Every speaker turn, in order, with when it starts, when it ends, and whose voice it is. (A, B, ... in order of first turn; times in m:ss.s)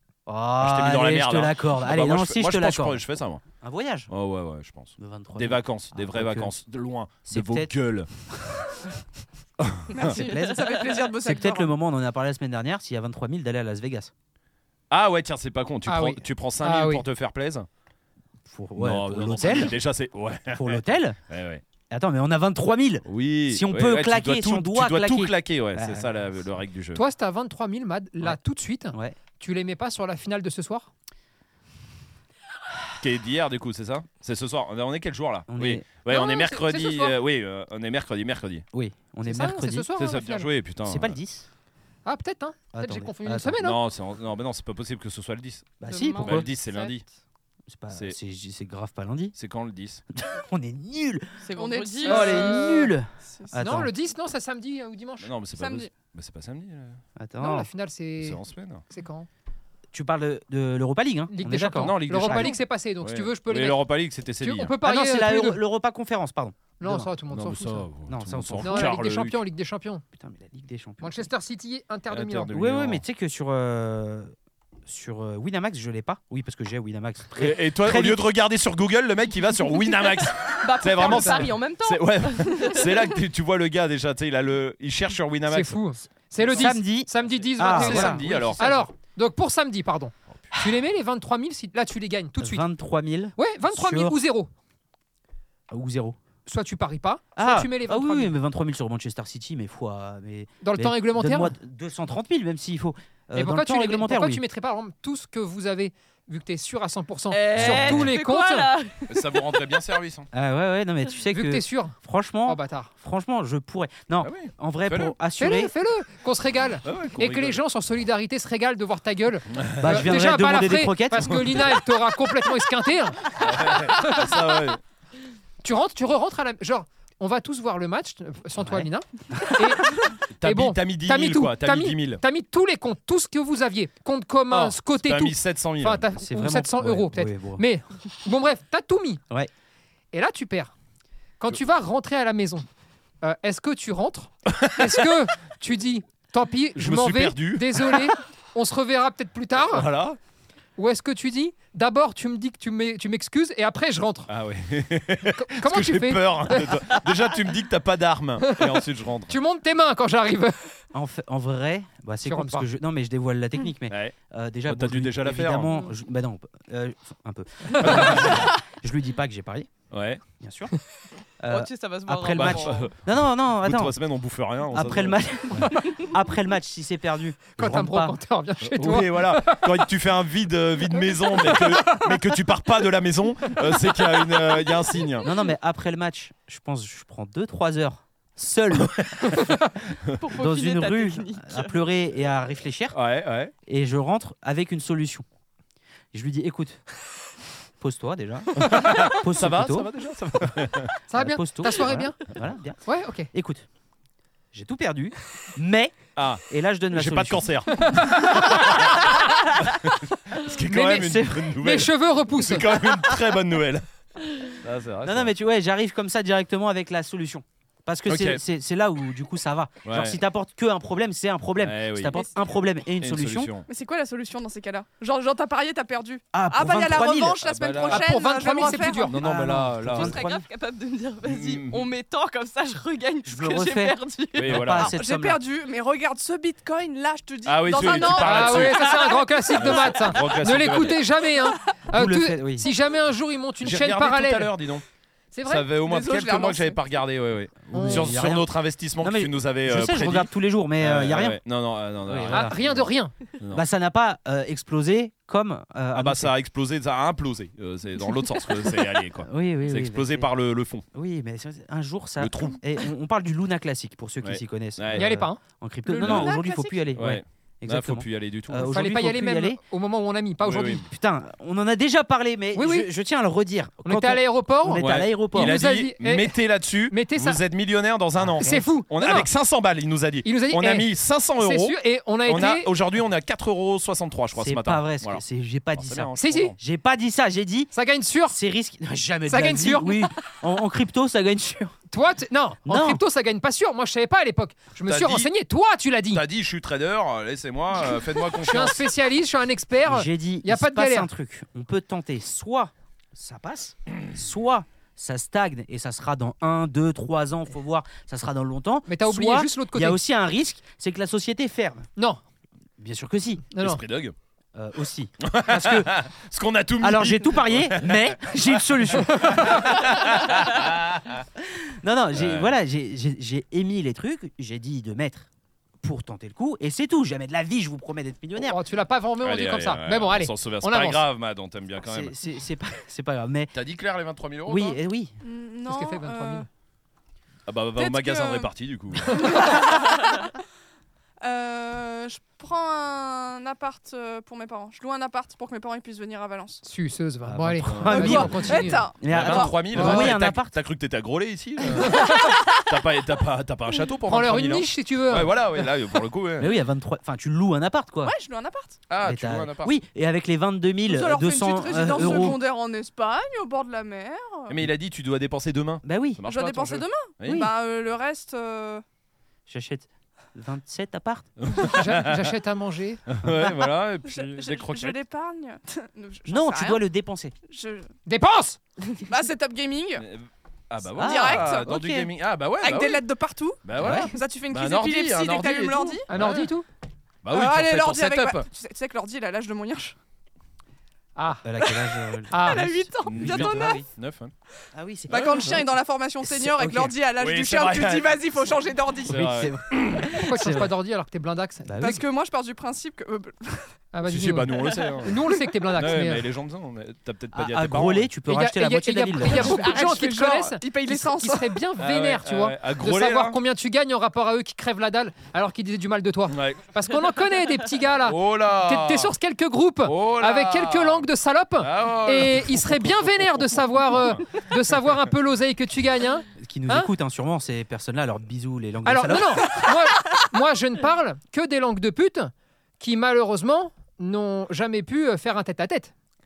0:00.3-0:03.0 A
0:00.6-0:03.4 B
0:03.6-0:04.1 A
0:04.1-0:08.1 B
0:05.0-0:06.5 A
0:07.2-0:07.7 A
0:09.6-0:10.1 B
0:09.9-0:11.7 C
0:10.0-0:14.1 A
0:10.4-0:11.0 D
0:14.9-0:17.7 B
0:15.9-0:17.0 E
0:18.5-0:19.7 A
0:18.8-0:21.6 B
0:20.5-0:21.2 A
0:21.9-0:26.1 A
0:23.0-0:27.0 B
0:26.9-0:30.9 E
0:28.9-0:29.2 A
0:33.0-0:38.6 B
0:35.5-0:35.8 A
0:36.2-0:37.0 E
0:38.7-0:39.9 A
0:39.2-0:40.5 E
0:40.0-0:41.2 B
0:40.8-0:41.4 A
0:42.0-0:43.8 E
0:42.7-0:43.6 A
0:43.6-0:47.0 B
0:45.8-0:46.5 A
0:45.9-0:47.1 D
0:47.7-0:49.4 A
0:47.9-0:48.2 B
0:49.4-0:50.0 B
0:50.1-0:51.3 A
0:51.4-0:52.4 D
0:51.6-0:52.7 C
0:52.0-0:53.9 A
0:52.1-0:52.9 E
0:53.2-0:53.5 C
0:53.5-0:55.4 E
0:55.2-0:57.0 B
0:55.6-0:55.9 C
0:57.2-0:57.7 A
0:57.4-0:59.3 E
0:58.2-0:58.8 B
0:59.9-1:02.6 A
1:01.3-1:05.6 E
1:01.7-1:04.8 B
1:04.8-1:07.1 A
1:06.8-1:07.9 E
1:07.3-1:09.4 B
1:08.1-1:09.0 A
1:08.6-1:10.0 E
1:10.2-1:11.3 A
1:11.0-1:12.5 E
1:12.1-1:13.0 B
1:12.5-1:14.3 A
1:14.8-1:18.3 A
1:17.4-1:25.8 B
1:20.3-1:23.0 D
1:21.0-1:21.5 E
1:25.5-1:32.6 E
1:26.4-1:28.7 A
1:27.6-1:28.7 B
1:32.4-1:34.2 A
1:33.4-1:34.5 E
1:35.7-1:36.2 A
1:36.4-1:38.3 E
1:37.4-1:44.4 A
1:40.6-1:41.5 E
1:43.3-1:48.7 E
1:47.3-1:49.8 D
1:47.6-1:48.1 A
1:49.1-1:50.3 B
1:50.3-1:55.7 A
1:51.3-1:52.9 E
1:54.2-1:55.1 B
1:55.4-2:04.7 E
1:56.8-1:57.6 B
1:59.5-2:00.1 B
1:59.8-2:01.4 A
2:01.2-2:01.7 B
2:03.4-2:04.8 B
2:05.6-2:19.2 E
2:08.6-2:09.5 A
2:10.4-2:12.2 B
2:14.5-2:16.1 B
2:16.2-2:17.6 A
2:20.1-2:20.7 E
2:21.4-2:22.6 E
2:23.2-2:29.9 E
2:24.5-2:25.1 B
2:26.8-2:28.1 B
2:29.6-2:30.2 B
2:30.8-2:34.3 E
2:34.3-2:39.3 B
2:35.4-2:37.0 E
2:38.4-2:40.7 E
2:40.9-2:49.7 A
2:42.2-2:42.7 E
2:43.9-2:45.8 B
2:47.8-2:48.5 B
2:49.9-2:50.2 B
2:50.4-2:50.7 A
2:51.4-2:53.9 A
2:51.5-2:52.9 D
2:52.3-2:55.7 B
2:54.7-2:58.2 A
2:57.6-2:59.8 E
2:58.6-3:05.3 B
3:01.4-3:02.1 E
3:05.2-3:09.3 A
3:08.8-3:09.3 B
3:10.2-3:11.8 D
3:10.3-3:13.0 A
3:12.9-3:13.5 B
3:13.6-3:15.2 A
3:16.1-3:16.8 A
3:17.8-3:19.9 A
3:18.6-3:20.9 B
3:21.1-3:22.2 E
3:21.1-3:23.6 A
3:22.8-3:23.3 E
3:24.5-3:27.5 A
3:26.2-3:33.8 B
3:27.7-3:28.9 E
3:30.6-3:32.7 E
3:30.7-3:31.5 A
3:34.6-3:35.3 B
3:35.0-3:43.5 A
3:38.1-3:38.4 B
3:39.8-3:40.2 B
3:41.6-3:42.2 B
3:43.0-3:43.7 B
3:43.7-3:49.1 C
3:46.3-3:47.4 A
3:47.4-3:48.1 B
3:47.8-3:49.2 E
3:49.0-3:50.2 B
3:49.2-3:50.4 A
3:49.9-3:54.7 D
3:51.2-3:51.9 B
3:53.2-3:55.4 A
3:54.3-3:55.0 B
3:54.7-3:59.9 C
3:57.4-3:58.8 B
3:58.0-4:04.5 E
3:59.6-4:01.1 B
4:01.9-4:02.7 A
4:03.6-4:04.8 B
4:05.3-4:05.7 E
4:05.4-4:12.9 B
4:05.8-4:06.8 C
4:07.6-4:11.4 A
4:07.7-4:08.2 E
4:12.0-4:12.6 A
4:12.3-4:13.1 E
4:13.4-4:13.6 B
4:13.5-4:16.3 A
4:15.9-4:20.8 B
4:19.2-4:20.3 A
4:20.9-4:29.6 A
4:22.2-4:22.6 B
4:24.2-4:25.1 B
4:24.9-4:25.4 E
4:25.8-4:26.8 C
4:26.0-4:26.3 B
4:26.9-4:28.7 B
4:28.6-4:30.8 E
4:30.4-4:30.8 B
4:30.8-4:35.6 A
4:32.5-4:32.9 E
4:33.8-4:37.4 E
4:34.8-4:45.2 B
4:38.4-4:39.3 E
4:40.2-4:42.7 E
4:44.4-4:47.7 A
4:45.8-4:46.6 B
4:46.2-4:46.5 E
4:47.7-4:48.4 E
4:48.3-4:51.8 A
4:49.3-4:50.0 E
4:51.9-4:56.2 E
4:52.6-4:53.0 A
4:54.9-4:55.3 B
4:56.1-4:58.8 B
4:58.3-5:01.1 E
4:59.8-5:11.9 A
5:08.9-5:10.0 E
5:12.8-5:13.4 A
5:13.5-5:13.8 E
5:13.6-5:14.1 B
5:14.5-5:15.9 A
5:15.2-5:21.2 B
5:16.8-5:19.5 A
5:19.1-5:19.7 E
5:21.4-5:25.3 A
5:22.1-5:22.6 B
5:25.8-5:28.6 A
5:28.4-5:31.0 E
5:29.2-5:32.2 B
5:31.8-5:33.5 A
5:33.5-5:34.8 B
5:34.4-5:35.1 A
5:35.2-5:36.5 C
5:35.7-5:36.4 E
5:37.4-5:39.5 B
5:37.8-5:40.3 C
5:41.2-5:46.6 C
5:46.6-5:48.9 E
5:47.2-5:50.6 A
5:47.6-5:48.5 B
5:47.9-5:49.7 C
5:49.0-5:56.5 B
5:49.7-5:50.1 E
5:51.8-5:52.4 E
5:54.0-5:55.5 E
5:56.4-5:58.1 A
5:58.0-5:58.8 C
5:58.9-5:59.8 B
5:59.0-6:02.4 A
6:00.9-6:04.6 C
6:04.5-6:07.5 B
6:05.8-6:06.2 A
6:06.2-6:08.8 C
6:07.2-6:07.5 A
6:09.5-6:11.3 A
6:11.4-6:12.3 B
6:11.6-6:13.1 E
6:13.1-6:15.0 B
6:14.0-6:16.8 C
6:16.3-6:17.3 A
6:17.5-6:17.9 C
6:18.0-6:18.6 E
6:19.0-6:20.0 C
6:20.0-6:23.0 B
6:21.0-6:22.1 A
6:21.0-6:21.7 C
6:22.6-6:26.1 C
6:23.6-6:26.5 B
6:23.8-6:24.1 A
6:26.1-6:26.6 E
6:27.2-6:28.5 B
6:27.3-6:30.0 C
6:31.2-6:31.4 E
6:31.4-6:33.8 A
6:32.3-6:32.7 E
6:32.3-6:33.8 C
6:33.0-6:34.3 B
6:34.7-6:35.7 A
6:35.1-6:39.4 C
6:36.2-6:36.9 A
6:37.2-6:38.2 B
6:39.0-6:40.2 B
6:39.0-6:40.7 A
6:40.1-6:42.0 E
6:41.6-6:42.0 A
6:41.8-6:43.8 C
6:43.9-6:46.3 E
6:44.0-6:45.2 B
6:45.7-6:48.1 B
6:47.3-6:49.7 A
6:48.2-7:06.9 E
6:49.2-6:51.6 C
6:51.8-6:53.4 B
6:56.3-6:56.7 B
6:58.0-6:59.1 B
6:59.8-7:01.1 B
7:01.6-7:04.5 B
7:06.4-7:09.6 A
7:08.8-7:15.9 E